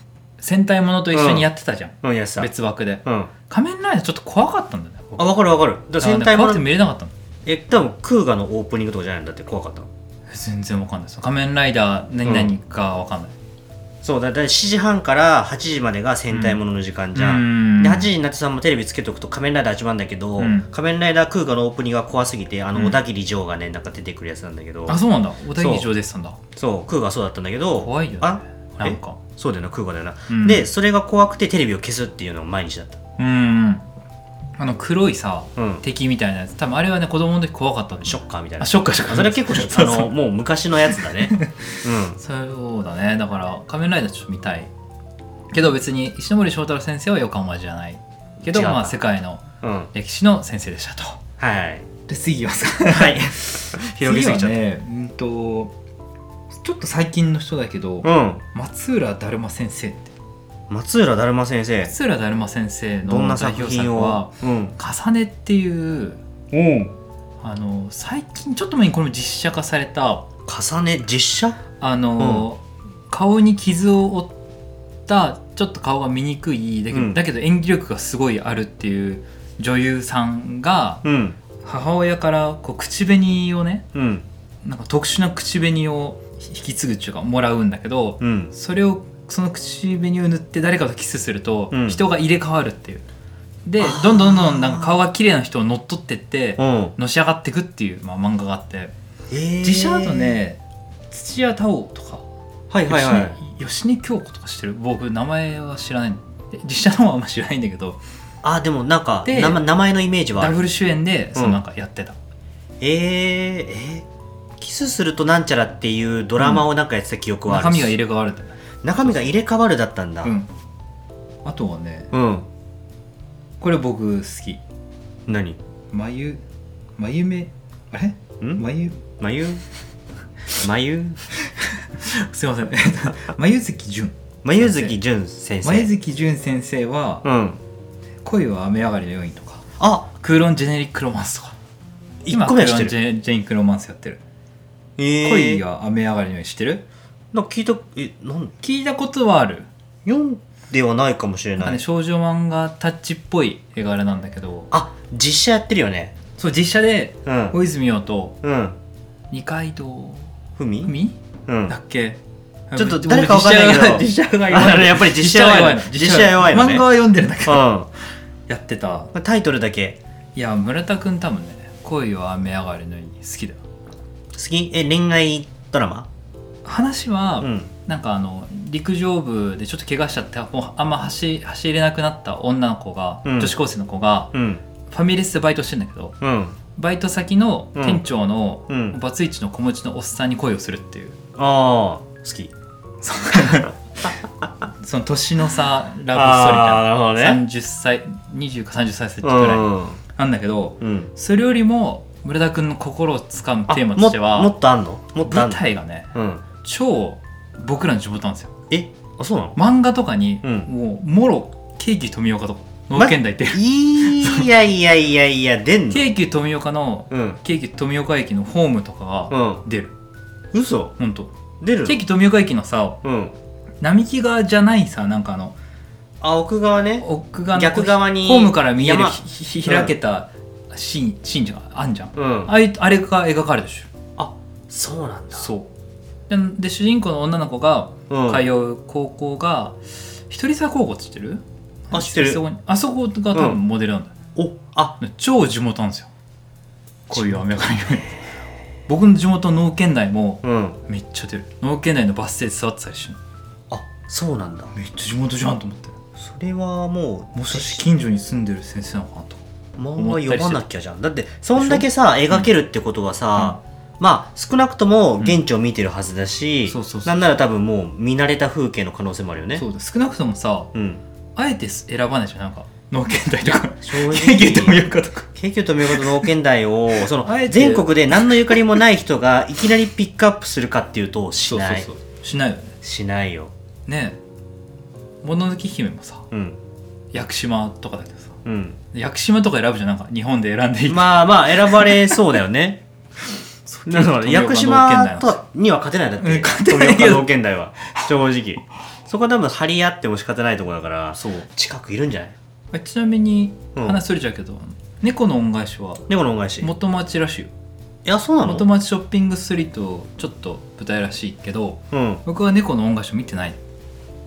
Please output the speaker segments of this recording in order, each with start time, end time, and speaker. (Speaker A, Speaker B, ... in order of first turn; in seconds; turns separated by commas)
Speaker A: 0.4-5.3, Speaker B: 1.1-1.5, Speaker B: 2.0-2.5, Speaker B: 3.0-3.3, Speaker B: 5.2-6.7, Speaker A: 6.0-7.1, Speaker B: 7.5-9.9, Speaker A: 10.3-13.3, Speaker B: 12.2-12.5, Speaker B: 14.0-25.0, Speaker A: 16.3-16.6, Speaker A: 17.1-18.1, Speaker A: 20.4-20.7, Speaker A: 24.9-26.4, Speaker B: 25.6-25.9, Speaker B: 26.6-33.0, Speaker A: 27.8-29.2, Speaker A: 30.3-30.7, Speaker A: 33.2-33.8, Speaker A: 34.6-40.1, Speaker B: 35.6-35.8, Speaker B: 38.0-42.2, Speaker A: 41.3-41.6, Speaker A: 42.2-44.7, Speaker A: 45.5-51.2, Speaker B: 48.4-49.0, Speaker B: 49.6-49.9, Speaker B: 51.4-51.9, Speaker A: 52.1-55.7, Speaker B: 52.9-54.6, Speaker A: 56.6-60.1, Speaker B: 58.0-58.4, Speaker B: 60.7-61.9, Speaker A: 61.8-66.2, Speaker B: 63.1-64.8, Speaker B: 66.5-66.9, Speaker A: 67.4-70.3, Speaker B: 70.5-71.6, Speaker A: 71.8-74.3, Speaker B: 72.2-72.5, Speaker A: 75.1-81.0, Speaker B: 76.9-77.2, Speaker B: 81.0-81.4, Speaker A: 81.6-83.9, Speaker B: 83.9-84.3, Speaker A: 84.6-93.0, Speaker B: 88.2-88.5, Speaker B: 91.7-92.0, Speaker A: 93.7-98.9, Speaker B: 93.8-95.0, Speaker B: 96.6-97.0, Speaker B: 99.3-100.4, Speaker A: 99.6-102.2, Speaker B: 102.7-103.4, Speaker A: 102.9-108.0, Speaker B: 108.4-110.6, Speaker A: 109.2-109.6, Speaker A: 110.4-112.2, Speaker B: 112.8-114.1, Speaker B: 114.6-118.0, Speaker A: 116.4-116.7, Speaker A: 117.5-119.3, Speaker B: 118.8-120.3, Speaker A: 121.5-122.1, Speaker B: 122.1-122.5, Speaker A: 123.6-124.6, Speaker B: 125.3-125.6, Speaker A: 125.9-126.4, Speaker A: 127.0-129.0, Speaker B: 129.2-129.6, Speaker B: 130.6-131.2, Speaker A: 132.0-135.0, Speaker B: 134.4-135.9, Speaker A: 135.6-137.2, Speaker B: 137.2-137.6, Speaker A: 138.2-139.6, Speaker B: 139.8-140.1, Speaker A: 140.2-141.6, Speaker B: 142.2-142.9, Speaker A: 142.3-144.2, Speaker B: 145.0-145.6, Speaker A: 145.2-146.8, Speaker B: 147.3-148.5, Speaker A: 148.6-149.7, Speaker B: 150.1-151.8, Speaker A: 151.6-154.7, Speaker B: 154.7-156.2, Speaker A: 156.4-158.4, Speaker B: 157.3-157.6, Speaker B: 158.4-158.8, Speaker A: 159.3-160.3, Speaker B: 160.6-160.9, Speaker A: 160.8-162.2, Speaker B: 161.5-161.8, Speaker A: 162.7-167.7, Speaker B: 162.8-166.9, Speaker B: 167.4-167.9, Speaker A: 168.5-169.1, Speaker B: 169.1-170.0, Speaker A: 170.3-173.6, Speaker B: 174.3-176.1, Speaker A: 176.7-184.3, Speaker B: 177.4-177.7, Speaker B: 183.2-183.6, Speaker B: 184.3-184.6, Speaker A: 184.9-186.2, Speaker B: 186.2-186.6, Speaker A: 186.8-191.2, Speaker B: 187.8-188.0, Speaker B: 188.7-189.0, Speaker B: 191.4-192.5, Speaker A: 193.0-194.1, Speaker A: 194.8-204.5, Speaker B: 196.1-197.4, Speaker B: 199.2-200.0, Speaker B: 200.8-201.1, Speaker B: 203.7-205.6, Speaker A: 205.2-206.1, Speaker B: 206.1-206.4, Speaker A: 206.6-208.5, Speaker B: 208.7-209.6, Speaker A: 209.6-214.5, Speaker B: 210.4-210.7, Speaker B: 212.9-216.1, Speaker A: 215.9-219.9, Speaker B: 217.1-217.4, Speaker B: 219.3-219.6, Speaker B: 220.5-220.9, Speaker A: 221.0-221.3, Speaker B: 221.6-222.0, Speaker A: 221.8-223.0, Speaker B: 223.0-223.3, Speaker A: 223.8-225.6, Speaker B: 226.2-229.9, Speaker A: 227.0-233.9, Speaker B: 232.2-232.5, Speaker B: 234.2-235.5, Speaker A: 235.3-235.7, Speaker A: 236.3-239.8, Speaker B: 238.1-238.5, Speaker A: 240.3-244.2, Speaker B: 241.9-242.4, Speaker B: 243.3-243.6, Speaker B: 244.3-245.0, Speaker A: 245.0-246.1, Speaker A: 247.1-248.2, Speaker B: 247.1-248.1, Speaker A: 248.9-253.2, Speaker B: 250.4-250.8, Speaker B: 253.7-254.7, Speaker A: 254.7-255.9, Speaker B: 256.2-257.8, Speaker A: 257.4-259.4, Speaker B: 259.8-269.6, Speaker A: 260.0-260.6, Speaker A: 261.6-262.5, Speaker A: 266.7-267.2, Speaker A: 269.6-270.7, Speaker B: 270.7-271.0, Speaker A: 271.4-275.3, Speaker B: 273.8-274.8, Speaker B: 275.4-281.9, Speaker A: 275.9-276.3, Speaker A: 277.2-278.8, Speaker A: 281.5-282.7, Speaker B: 282.8-283.5, Speaker A: 283.9-284.2, Speaker A: 285.2-286.3, Speaker B: 286.3-286.6, Speaker A: 287.1-288.4, Speaker B: 288.4-288.8, Speaker A: 288.9-292.2, Speaker B: 290.9-292.8, Speaker A: 293.7-295.4, Speaker B: 293.9-302.4, Speaker A: 296.2-297.3, Speaker A: 301.2-301.5, Speaker A: 302.7-306.1, Speaker B: 306.1-306.7, Speaker A: 306.6-307.5, Speaker B: 308.1-308.7, Speaker A: 308.4-313.6, Speaker B: 311.9-312.2